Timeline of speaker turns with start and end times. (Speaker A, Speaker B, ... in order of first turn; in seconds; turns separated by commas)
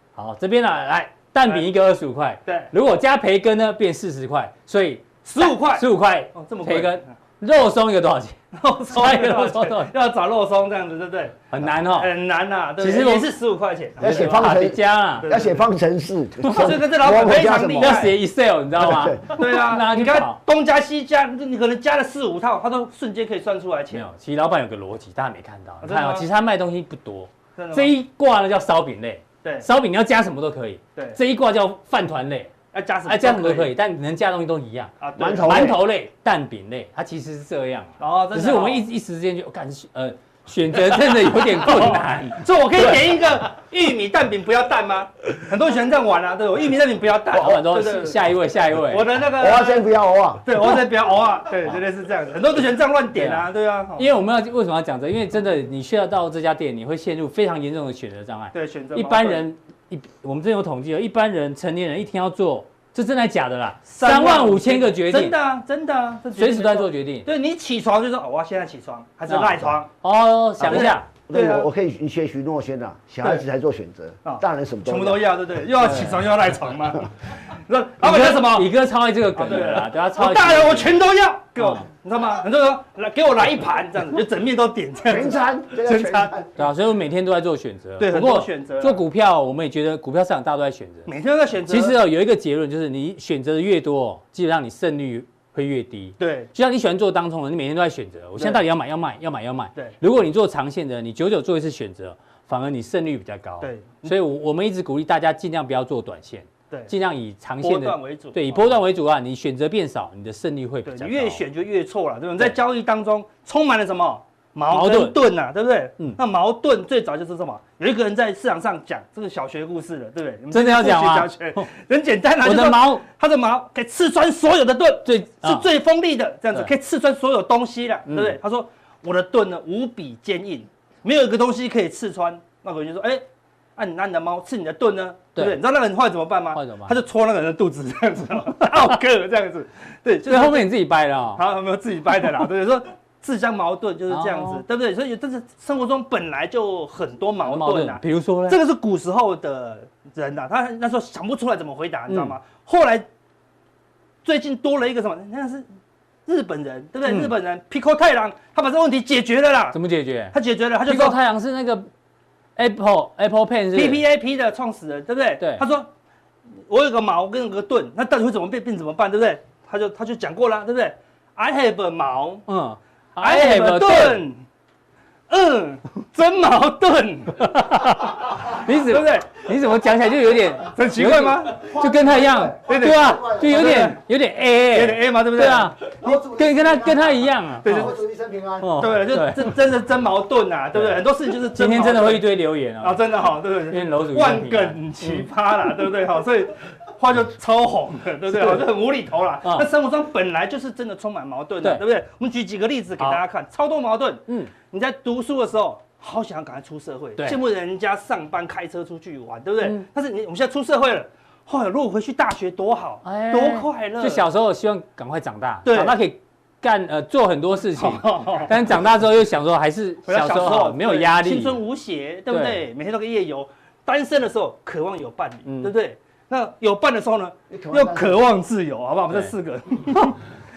Speaker A: 0.2-8.4, Speaker B: 5.2-7.1, Speaker B: 8.6-14.4, Speaker A: 8.9-9.9, Speaker A: 11.5-12.1, Speaker A: 12.8-13.3, Speaker C: 14.0-18.1, Speaker A: 14.0-15.3, Speaker B: 15.2-15.7, Speaker A: 16.4-16.8, Speaker B: 16.5-18.2, Speaker A: 17.7-20.4, Speaker C: 18.8-19.4, Speaker B: 19.3-24.1, Speaker A: 23.9-32.5, Speaker B: 25.8-26.3, Speaker B: 27.6-27.9, Speaker B: 32.7-33.7, Speaker A: 33.1-43.1, Speaker B: 35.0-35.8, Speaker C: 35.2-35.8, Speaker B: 38.0-38.9, Speaker B: 41.3-48.2, Speaker A: 47.3-49.1, Speaker B: 48.8-49.8, Speaker C: 49.2-50.5, Speaker B: 50.5-54.1, Speaker A: 53.1-65.4, Speaker B: 58.5-59.4, Speaker B: 63.9-69.9, Speaker A: 66.3-67.3, Speaker A: 69.3-71.1, Speaker C: 70.6-75.5, Speaker B: 70.6-71.7, Speaker B: 74.2-78.7, Speaker A: 75.8-76.2, Speaker A: 78.0-81.0, Speaker B: 79.3-86.3, Speaker A: 81.6-81.9, Speaker C: 85.0-86.7, Speaker A: 86.6-91.1, Speaker B: 88.0-89.0, Speaker B: 91.1-92.0, Speaker A: 91.7-111.4, Speaker B: 96.2-96.5, Speaker B: 103.6-104.1, Speaker B: 107.6-108.8, Speaker B: 110.8-133.2, Speaker A: 114.7-115.2, Speaker A: 120.5-121.7, Speaker A: 122.4-123.0, Speaker A: 125.0-125.7, Speaker A: 128.1-128.4, Speaker B: 133.8-140.7, Speaker A: 136.5-137.0, Speaker A: 140.3-141.4, Speaker B: 141.4-153.1, Speaker A: 144.1-144.6, Speaker A: 147.4-148.6, Speaker A: 152.1-152.3, Speaker B: 154.2-155.7, Speaker B: 156.3-159.8, Speaker A: 157.1-157.3, Speaker A: 159.7-160.3, Speaker B: 160.3-161.2, Speaker A: 160.9-161.9, Speaker A: 162.6-164.0, Speaker B: 163.7-165.9, Speaker A: 165.4-165.6, Speaker B: 166.7-172.5, Speaker A: 172.5-174.2, Speaker B: 173.2-174.4, Speaker B: 175.3-177.5, Speaker A: 177.4-187.9, Speaker B: 178.5-179.4, Speaker B: 180.8-181.6, Speaker C: 181.6-184.0, Speaker B: 182.7-184.0, Speaker B: 184.7-185.8, Speaker C: 186.0-188.8, Speaker B: 187.6-187.9, Speaker A: 188.6-189.5, Speaker B: 188.8-192.3, Speaker A: 190.7-193.1, Speaker B: 192.8-214.2, Speaker A: 193.7-195.3, Speaker A: 198.3-198.6, Speaker A: 204.3-204.5, Speaker A: 213.0-221.6, Speaker B: 215.7-216.0, Speaker B: 217.8-218.7, Speaker B: 220.1-230.2, Speaker A: 222.3-222.6, Speaker A: 225.4-225.7, Speaker C: 227.5-228.3